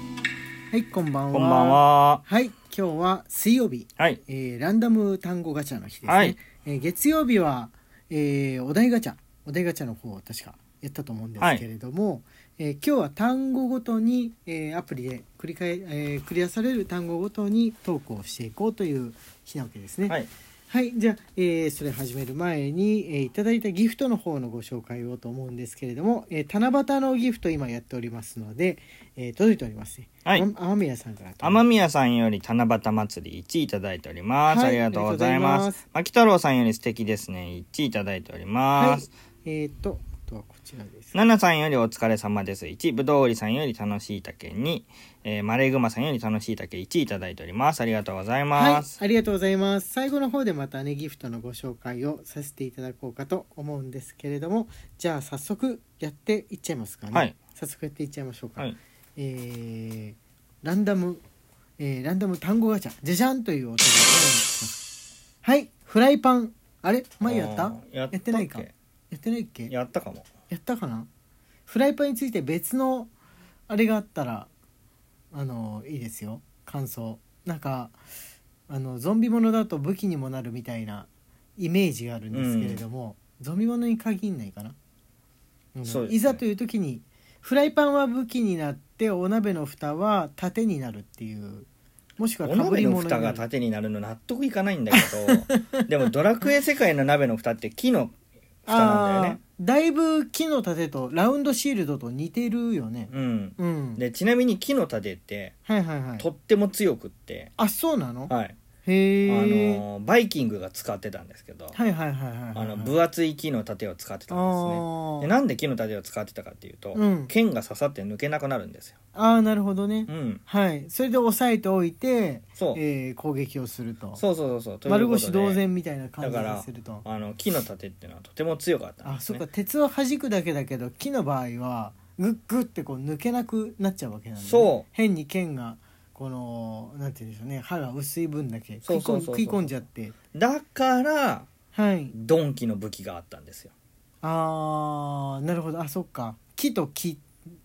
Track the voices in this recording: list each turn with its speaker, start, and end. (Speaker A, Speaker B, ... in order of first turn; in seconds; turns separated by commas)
Speaker A: 0.7-20.2, Speaker B: 1.3-2.2, Speaker B: 6.1-6.3, Speaker B: 11.4-11.6, Speaker A: 20.7-31.7, Speaker B: 31.4-39.1, Speaker A: 34.5-35.8, Speaker A: 38.8-41.1, Speaker B: 41.1-49.0, Speaker A: 48.5-61.2, Speaker A: 61.8-64.8, Speaker A: 65.4-69.7, Speaker B: 67.2-68.7, Speaker B: 69.7-70.3, Speaker A: 70.5-71.1, Speaker A: 71.7-73.1, Speaker A: 73.7-74.5, Speaker A: 75.3-78.0, Speaker A: 78.7-84.8, Speaker B: 82.3-82.8, Speaker A: 85.7-91.7, Speaker B: 85.8-86.4, Speaker A: 92.2-93.4, Speaker B: 92.4-98.1, Speaker A: 94.9-95.8, Speaker B: 98.7-99.4, Speaker A: 98.7-104.0, Speaker B: 103.1-105.5, Speaker A: 105.6-106.2, Speaker B: 106.2-107.5, Speaker A: 107.6-109.8, Speaker B: 108.3-108.5, Speaker B: 109.3-111.8, Speaker A: 111.7-113.0, Speaker B: 112.5-119.0, Speaker A: 114.3-115.3, Speaker A: 116.9-117.3, Speaker A: 119.1-124.2, Speaker B: 120.1-120.4, Speaker B: 124.2-125.6, Speaker A: 124.8-127.0, Speaker B: 126.2-129.4, Speaker A: 129.0-140.1, Speaker B: 134.4-134.8, Speaker B: 138.8-139.8, Speaker B: 140.3-141.5, Speaker A: 141.7-142.1, Speaker B: 142.1-143.7, Speaker A: 144.2-147.2